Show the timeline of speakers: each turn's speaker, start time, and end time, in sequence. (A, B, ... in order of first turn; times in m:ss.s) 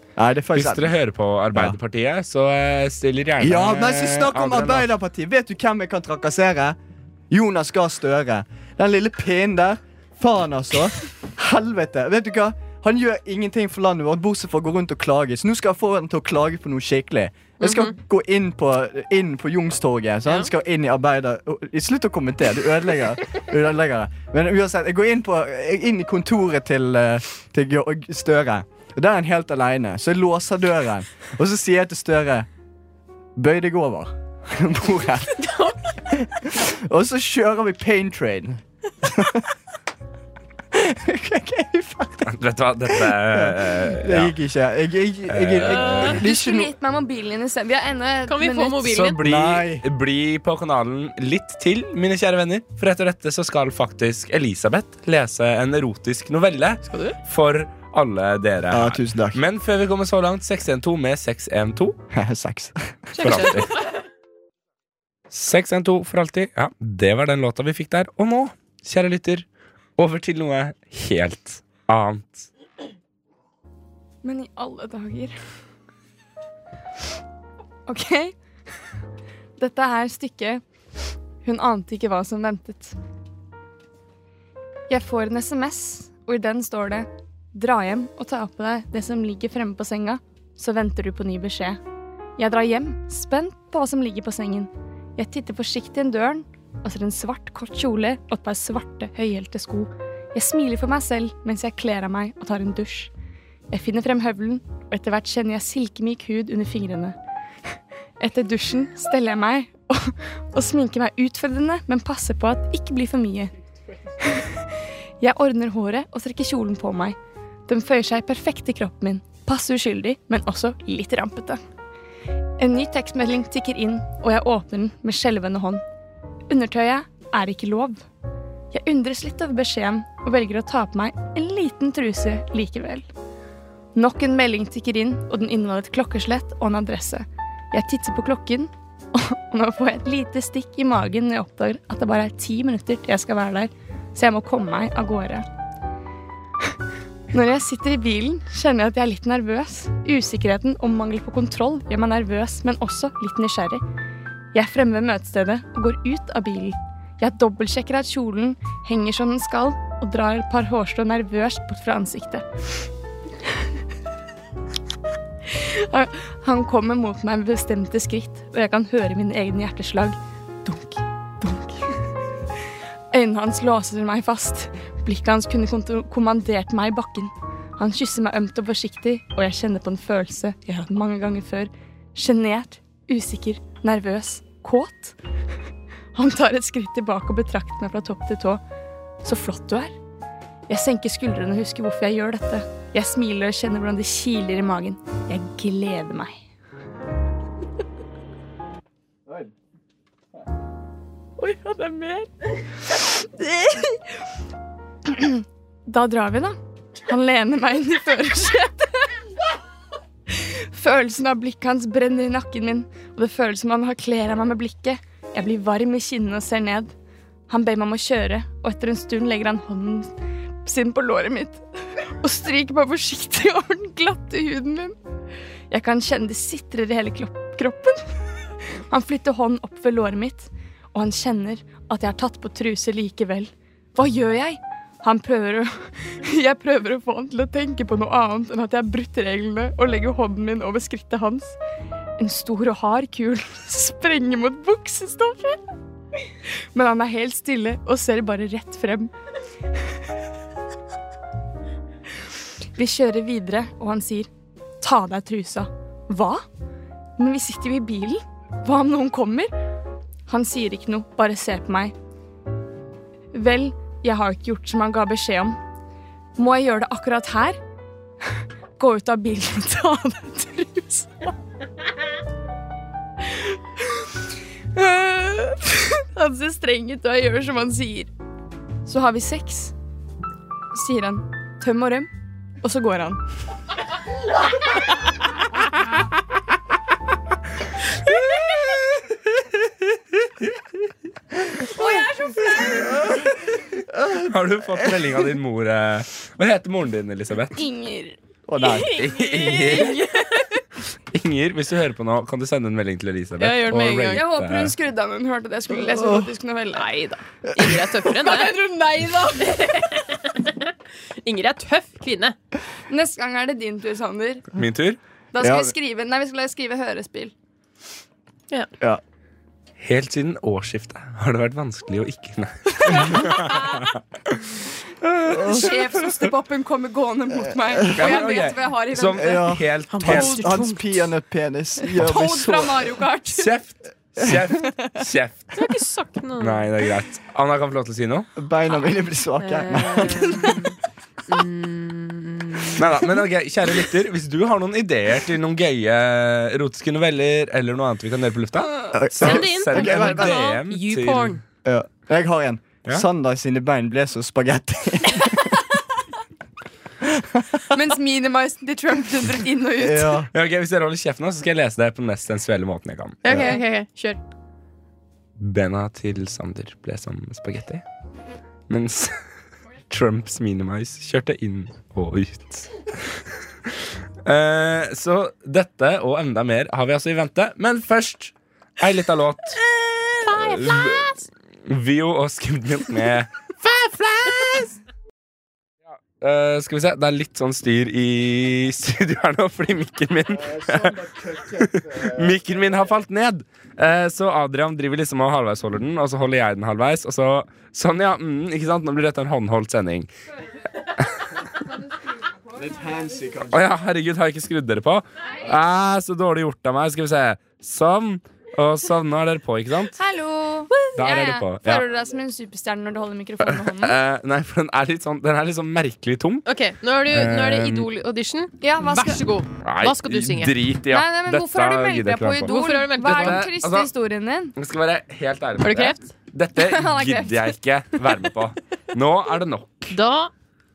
0:00.2-0:00.9 A
0:00.5-0:04.9 B
0:03.4-0:06.8 A
0:07.3-0:32.5 A
0:17.6-0:17.9 C
0:33.4-0:35.5 A
0:35.4-0:35.9 C
0:36.1-0:39.5 A
0:40.7-0:42.3 A
0:42.2-0:44.3 B
0:42.9-0:46.7 A
0:45.3-0:46.2 B
0:45.6-0:46.2 C
0:46.2-0:48.9 D
0:48.3-0:49.2 C
0:48.8-1:02.0 B
0:49.2-0:49.8 A
0:56.8-0:57.2 C
0:58.7-0:59.4 A
1:02.1-1:03.5 A
1:03.2-1:03.8 C
1:03.2-1:03.7 B
1:05.3-1:09.4 B
1:10.0-1:12.5 B
1:14.2-1:15.3 D
1:17.9-1:18.3 D
1:19.6-1:20.6 D
1:21.4-1:23.0 D
1:24.9-1:31.8 D
1:32.4-1:43.1 D
1:43.7-1:47.2 D
1:48.2-1:53.5 D
1:54.2-1:54.6 D
1:55.2-2:01.6 D
2:02.6-2:05.8 D
2:06.5-2:08.0 D
2:08.7-2:13.1 D
2:13.9-2:25.4 D
2:27.3-2:33.8 D
2:34.5-2:42.4 D
2:45.5-2:52.0 D
2:53.1-3:05.2 D
3:06.1-3:08.6 D
3:09.2-3:09.9 D
3:10.7-3:16.3 D
3:21.4-3:22.1 C
3:21.5-3:22.2 D
3:23.1-3:24.0 D
3:25.0-3:29.1 D
3:30.3-3:36.9 D
3:37.5-3:44.9 D
3:45.7-3:48.1 D
3:48.9-4:01.6 D
4:02.2-4:05.6 D
4:06.7-4:09.1 D
4:12.7-4:14.3 D
4:14.8-4:16.4 D
4:17.2-4:19.5 D
4:20.3-4:21.9 D
4:23.3-4:25.6 D
4:26.4-4:27.6 D
4:28.8-4:31.3 D
4:33.3-4:34.0 D
4:34.7-4:38.1 D
4:38.8-4:39.7 D
4:40.7-4:42.1 D
4:42.6-4:43.2 D
4:51.6-4:53.0 D
4:53.9-4:55.0 A
4:54.2-4:57.6 B
4:57.6-4:58.2 D
4:58.5-4:58.9 A
4:58.6-5:00.0 B
4:58.8-5:00.4 D
4:59.0-5:00.1 C
5:01.1-5:04.7 B
5:03.4-5:04.3 C
5:04.1-5:07.1 D
5:05.8-5:06.3 A
5:06.8-5:08.6 C
5:08.0-5:09.9 D
5:09.6-5:10.7 C
5:11.2-5:12.4 C
5:12.9-5:14.5 D
5:14.5-5:15.0 B
5:15.3-5:17.3 D
5:15.4-5:15.7 A
5:19.8-5:23.9 B
5:22.9-5:23.9 D
5:25.0-5:26.2 B
5:25.2-5:25.9 A
5:25.4-5:29.6 D
5:27.6-5:28.0 A
5:27.9-5:30.6 B
5:29.1-5:32.9 A
5:29.9-5:31.0 C
5:31.9-5:33.5 D
5:33.3-5:35.6 B
5:34.2-5:34.4 A
5:35.5-5:36.6 C
5:36.4-5:38.3 B
5:38.4-5:40.6 A
5:39.4-5:40.8 C
5:41.3-5:42.8 C
5:42.7-5:51.4 B
5:48.9-5:50.5 A
5:49.2-5:51.4 C
5:51.6-5:55.6 A
5:57.0-5:57.6 A
5:57.7-6:00.2 D
5:59.8-6:00.3 A
6:00.3-6:03.2 B
6:03.2-6:04.2 C
6:05.4-6:07.8 B
6:08.7-6:09.1 B
6:09.9-6:13.7 B
6:14.2-6:19.6 B
6:19.6-6:21.2 C
6:20.2-6:21.1 B
6:21.6-6:24.8 B
6:25.9-6:40.1 B
6:31.1-6:32.0 A
6:41.6-6:42.9 D
6:42.6-6:43.6 A
6:43.5-6:50.0 B
6:50.0-6:54.0 D
6:50.7-6:51.1 C
6:51.0-6:51.8 B
6:53.4-6:56.4 B
6:56.4-7:00.5 C
6:57.1-6:57.9 B
6:58.6-6:59.2 D
6:59.6-7:03.9 B
7:00.9-7:04.5 D
7:02.4-7:03.4 C
7:04.5-7:09.9 B
7:05.6-7:06.1 C
7:06.6-7:08.2 D
7:09.9-7:10.3 C